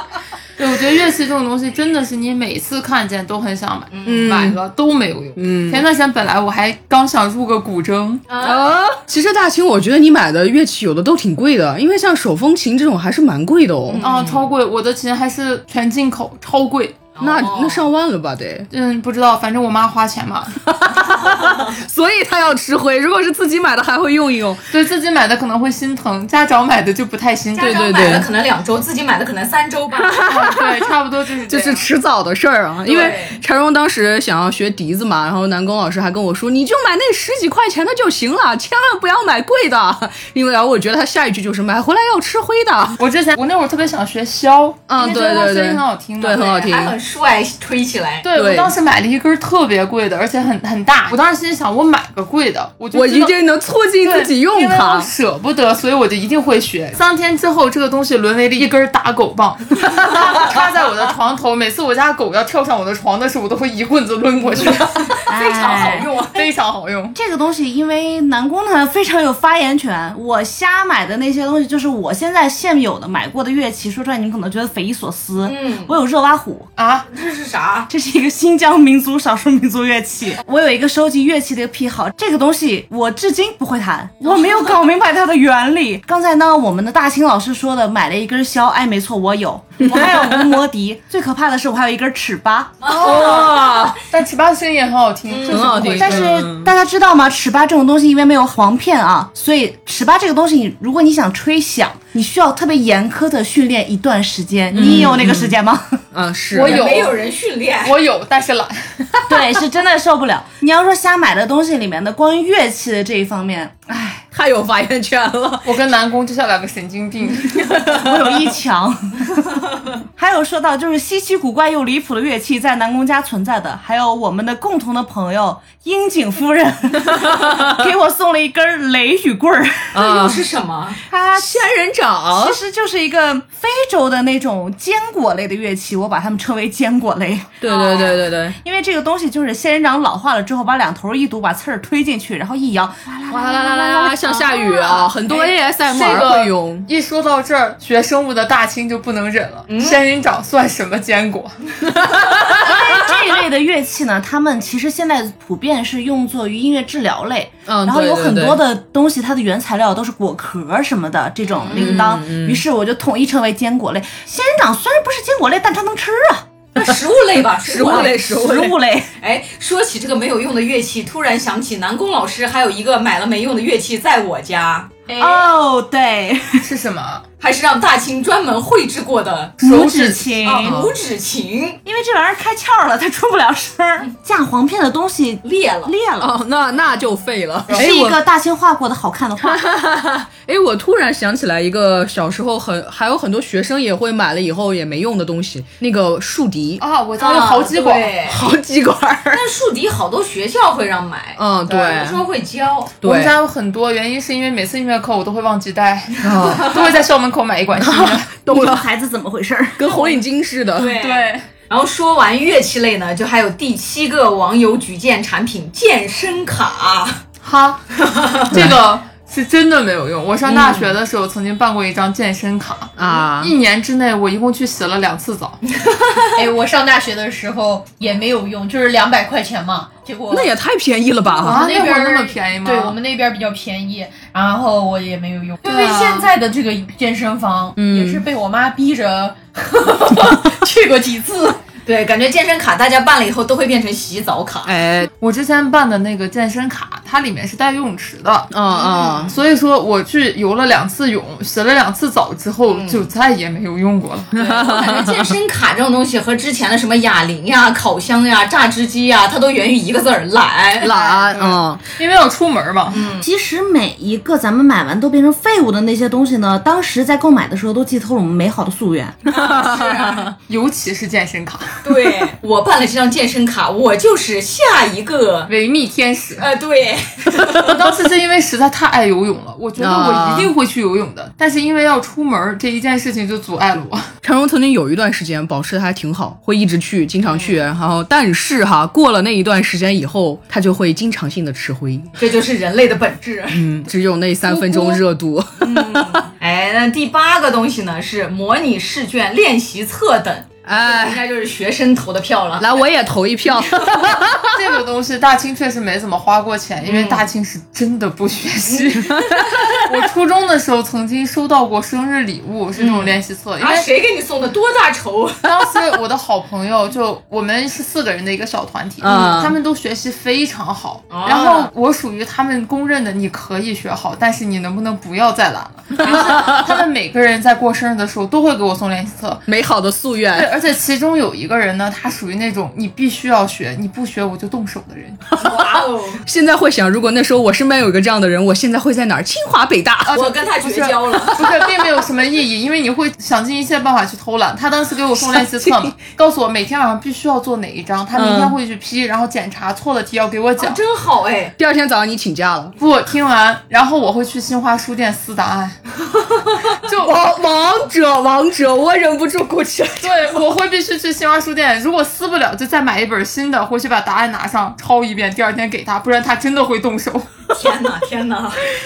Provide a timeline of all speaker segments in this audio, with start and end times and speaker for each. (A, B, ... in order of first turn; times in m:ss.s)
0:00.6-0:08.2 A
0:03.9-0:04.2 B
0:04.0-0:04.6 C
0:05.4-0:05.8 C
0:08.3-0:08.7 B
0:08.4-0:14.0 C
0:13.9-0:14.5 B
0:14.0-0:17.0 A
0:17.1-0:17.9 B
0:17.2-0:18.7 C
0:18.7-0:20.6 A
0:20.6-0:24.6 C
0:21.2-0:21.8 B
0:24.7-0:28.3 A
0:27.6-0:30.3 B
0:27.6-0:28.3 C
0:30.0-0:30.9 C
0:30.2-0:31.8 A
0:31.5-0:43.0 C
0:32.8-0:33.4 B
0:43.0-0:46.8 A
0:44.9-0:46.9 C
0:46.6-0:48.2 B
0:48.2-0:53.3 A
0:48.3-0:48.7 C
0:52.9-0:55.1 C
0:54.0-1:05.2 A
1:05.1-1:06.5 B
1:05.3-1:06.1 D
1:06.3-1:07.2 A
1:07.1-1:16.7 D
1:15.4-1:16.0 B
1:16.8-1:17.1 A
1:17.1-1:17.9 B
1:17.9-1:32.8 D
1:29.8-1:30.5 C
1:32.8-1:33.8 B
1:32.9-1:36.3 A
1:32.9-1:34.0 C
1:35.3-1:35.9 B
1:35.5-1:36.7 C
1:35.9-1:46.0 D
1:44.7-1:45.6 C
1:46.1-1:46.9 C
1:46.5-1:47.2 A
1:46.5-1:48.0 B
1:47.8-1:49.3 A
1:49.3-1:53.8 D
1:53.9-1:55.8 C
1:55.6-1:58.1 A
1:57.9-2:10.0 D
2:07.1-2:07.7 C
2:09.9-2:10.5 C
2:09.9-2:11.0 B
2:11.1-2:11.7 D
2:11.3-2:12.6 C
2:12.3-2:17.7 D
2:17.6-2:18.6 C
2:17.6-2:18.2 B
2:18.6-2:24.8 D
2:23.3-2:26.9 C
2:25.3-2:32.0 A
2:29.7-2:30.0 B
2:32.1-2:32.6 C
2:32.5-2:46.4 D
2:37.7-2:38.6 C
2:41.5-2:42.0 B
2:41.7-2:42.6 C
2:46.7-2:48.2 B
2:47.6-2:48.8 C
2:47.8-2:49.1 D
2:49.2-2:54.9 B
2:55.1-2:55.5 E
2:55.2-2:56.6 D
2:56.6-2:57.2 A
2:57.4-2:59.6 B
2:59.6-3:00.5 A
2:59.6-3:00.8 D
3:00.4-3:01.8 B
3:00.6-3:00.9 C
3:01.8-3:06.3 D
3:05.4-3:05.9 B
3:06.2-3:08.2 C
3:07.7-3:07.9 A
3:07.7-3:09.6 D
3:09.4-3:16.8 C
3:16.8-3:18.2 A
3:17.2-3:18.5 B
3:18.3-3:19.4 C
3:19.3-3:22.9 B
3:21.4-3:22.2 C
3:23.0-3:23.4 C
3:23.0-3:28.3 A
3:26.2-3:26.9 C
3:27.8-3:28.9 C
3:28.5-3:30.0 D
3:29.8-3:31.0 C
3:30.8-3:37.2 B
3:30.9-3:31.4 A
3:37.4-3:37.8 A
3:38.0-3:38.5 B
3:38.5-3:45.6 A
3:38.5-3:38.8 C
3:40.4-3:40.9 B
3:43.0-3:43.5 C
3:45.8-3:46.4 B
3:46.3-3:50.5 E
3:50.3-3:51.7 C
3:51.4-3:53.0 A
3:51.4-4:01.6 E
3:55.6-3:56.3 A
3:57.8-3:58.2 C
4:01.8-4:04.7 B
4:04.6-4:05.1 C
4:05.2-4:08.5 A
4:08.5-4:09.3 C
4:08.7-4:09.4 B
4:09.3-4:14.3 A
4:12.7-4:13.0 B
4:14.3-4:15.3 C
4:14.4-4:21.2 B
4:20.8-4:21.8 C
4:21.0-4:23.1 A
4:22.9-4:23.3 B
4:23.2-4:29.2 D
4:29.3-4:30.3 B
4:29.4-4:30.2 C
4:30.5-4:31.9 A
4:31.8-4:35.5 B
4:35.5-4:36.5 A
4:36.4-4:37.8 B
4:37.5-4:44.1 A
4:39.8-4:40.5 C
4:44.2-4:52.2 C
4:47.2-4:47.6 B
4:52.2-4:53.6 B
4:53.5-4:56.3 C
4:54.4-4:55.0 A
4:55.6-5:02.8 B
5:00.6-5:01.2 C
5:02.6-5:04.6 C
5:04.4-5:13.9 A
5:06.8-5:07.2 B
5:09.2-5:09.7 C
5:12.7-5:15.4 B
5:15.4-5:29.4 A
5:19.0-5:19.6 C
5:21.1-5:21.7 B
5:26.0-5:26.6 B
5:26.0-5:26.8 C
5:29.5-5:30.5 C
5:30.3-5:35.2 A
5:35.3-5:40.2 C
5:35.4-5:36.2 B
5:40.1-5:50.8 A
5:40.1-5:41.5 B
5:45.2-5:45.9 C
5:48.1-5:48.6 C
5:50.6-5:51.5 B
5:51.6-5:52.7 C
5:52.8-5:55.8 A
5:56.7-5:57.1 A
5:56.9-6:00.4 C
6:00.0-6:07.3 A
6:07.5-6:08.7 B